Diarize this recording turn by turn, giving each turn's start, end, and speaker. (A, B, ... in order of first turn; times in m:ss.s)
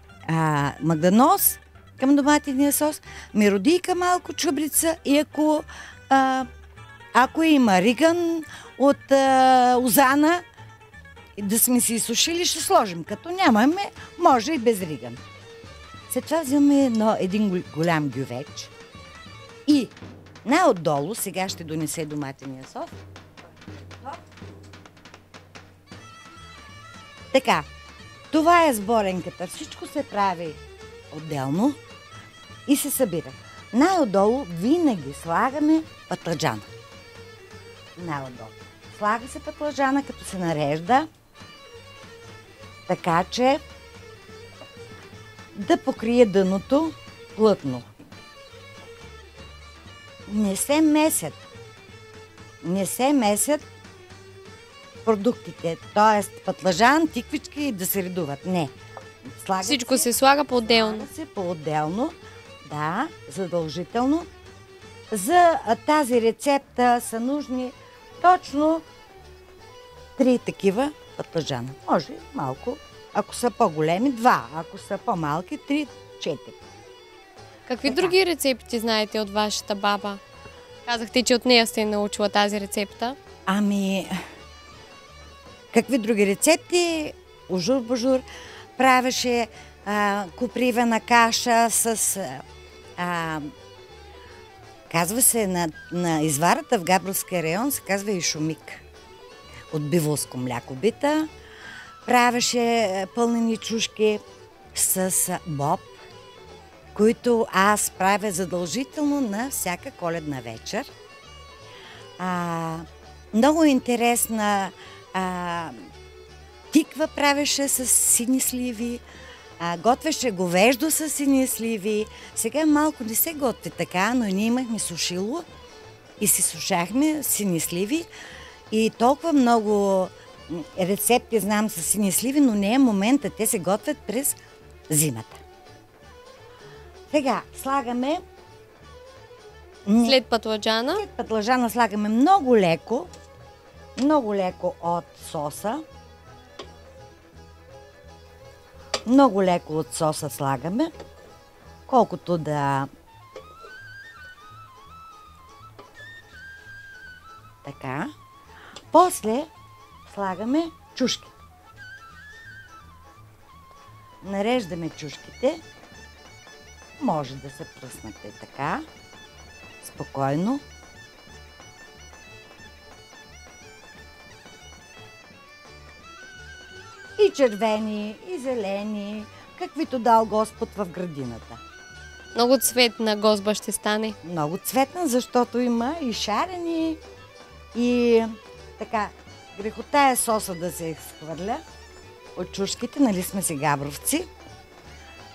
0:00.3-0:06.5 A
0:07.1-0:10.4 A
0:11.4-0:15.2 A
0:16.1-0:18.7 A
0:19.6-0:19.9 A
0:20.4-0:23.0 A
0:27.3-0:27.6 A
0:28.3-0:30.6 A
0:31.1-0:31.8 A
0:32.7-0:36.7 A
0:38.0-0:41.1 A
0:42.9-0:43.6 A
0:45.5-0:47.9 A
0:50.3-0:51.4 A
0:52.6-0:53.6 A
0:55.0-0:58.7 A
0:59.2-1:00.1 A
0:59.6-1:01.1 B
1:00.6-1:04.3 A
1:05.1-1:08.8 A
1:10.2-1:16.6 A
1:17.7-1:20.2 B
1:17.8-1:18.1 A
1:20.9-1:23.2 B
1:23.5-1:24.1 A
1:25.7-1:28.2 A
1:28.8-1:32.4 A
1:33.0-1:33.5 A
1:34.9-1:38.8 A
1:39.7-1:41.3 A
1:42.0-1:44.2 A
1:44.7-1:46.0 A
1:46.9-1:50.9 A
1:52.2-1:55.9 A
1:56.7-1:59.0 A
1:59.6-2:05.4 A
2:06.2-2:08.1 A
2:08.7-2:14.4 A
2:14.9-2:15.4 A
2:17.1-2:18.2 A
2:19.8-2:20.2 A
2:20.0-2:21.0 B
2:21.0-2:23.1 A
2:24.0-2:25.8 A
2:29.0-2:30.9 A
2:31.9-2:32.9 A
2:37.6-2:38.1 A
2:38.9-2:39.5 A
2:40.1-2:41.3 A
2:44.2-2:45.6 A
2:47.0-2:48.8 A
2:49.8-2:50.6 A
2:57.2-3:01.6 A
3:02.3-3:04.2 B
3:04.2-3:07.0 A
3:07.7-3:11.6 A
3:12.4-3:14.3 A